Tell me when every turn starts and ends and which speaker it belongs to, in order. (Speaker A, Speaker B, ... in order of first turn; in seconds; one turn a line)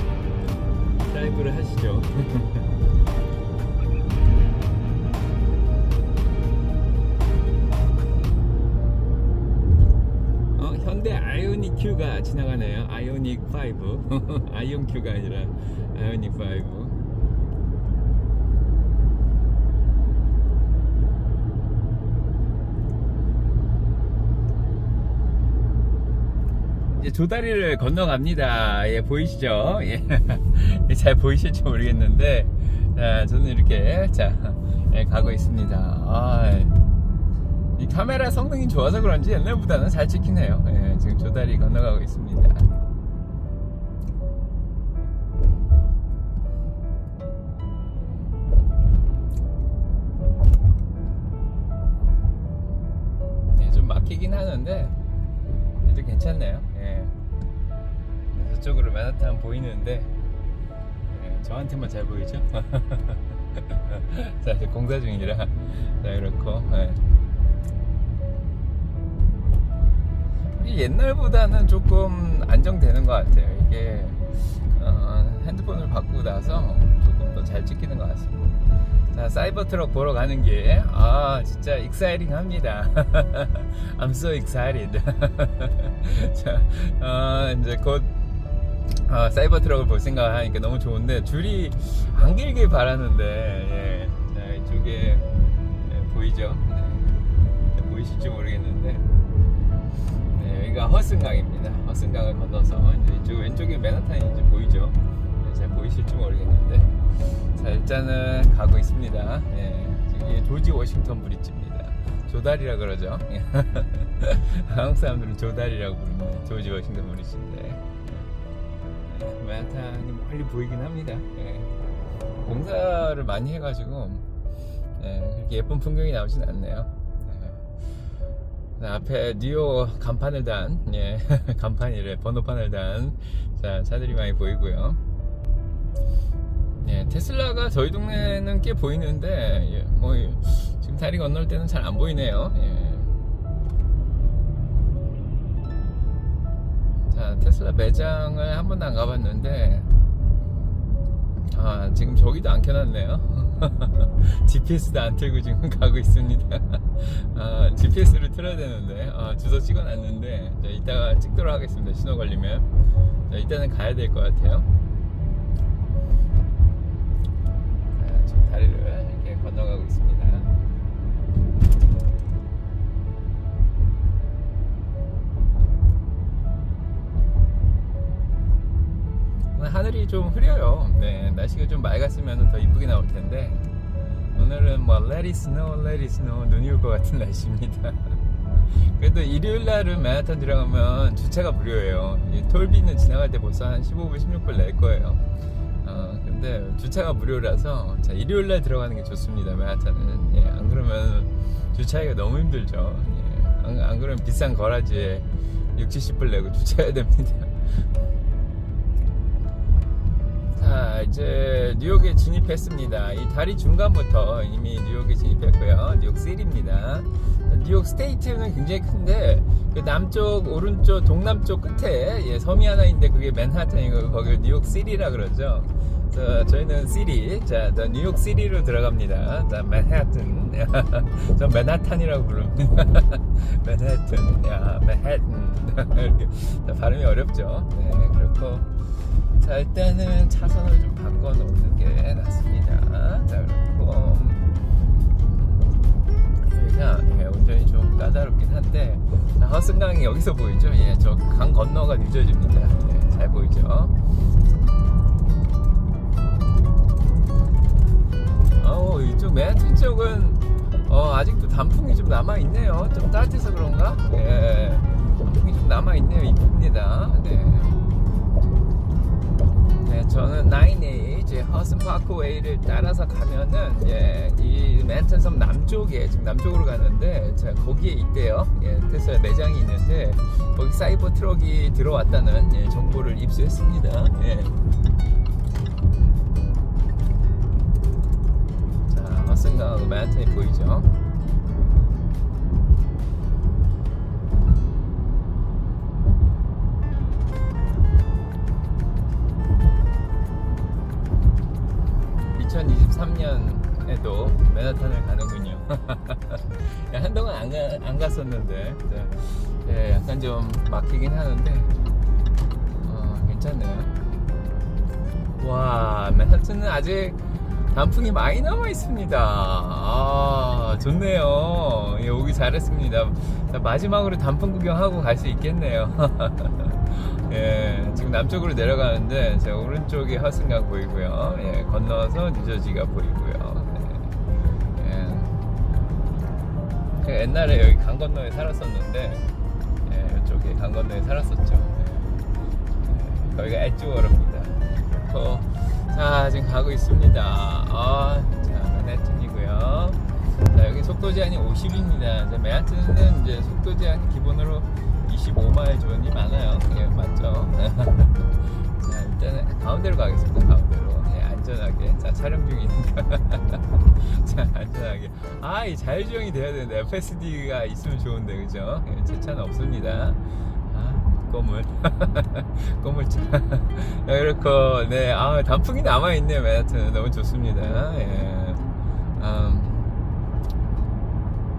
Speaker A: 1.1-2.7
Speaker A: 10.6-17.0
Speaker A: 26.9-36.8
Speaker A: 37.8-42.7
Speaker A: 53.5-55.0
Speaker A: 55.8-57.1
Speaker A: 58.3-60.1
Speaker A: 61.1-67.0
Speaker A: 70.6-88.1
Speaker A: 89.0-95.3
Speaker A: 95.8-97.2
Speaker A: 97.7-99.1
Speaker A: 100.3-117.8
Speaker A: 119.1-121.7
Speaker A: 122.4-124.3
Speaker A: 125.0-127.7
Speaker A: 128.8-135.0
Speaker A: 136.8-143.2
Speaker A: 147.0-149.9
Speaker A: 151.5-162.7
Speaker A: 163.3-164.7
Speaker A: 167.9-170.5
Speaker A: 179.6-183.7
Speaker A: 184.3-195.2
Speaker A: 195.8-207.8
Speaker A: 210.5-238.8
Speaker A: 239.4-244.4
Speaker A: 245.3-245.9
Speaker A: 246.4-253.9
Speaker A: 258.6-267.8
Speaker A: 269.8-284.6
Speaker A: 288.9-290.9
Speaker A: 302.3-311.7
Speaker A: 312.8-314.0
Speaker A: 315.4-334.2
Speaker A: 334.7-335.4
Speaker A: 337.0-339.3
Speaker A: 339.9-342.3
Speaker A: 342.8-380.0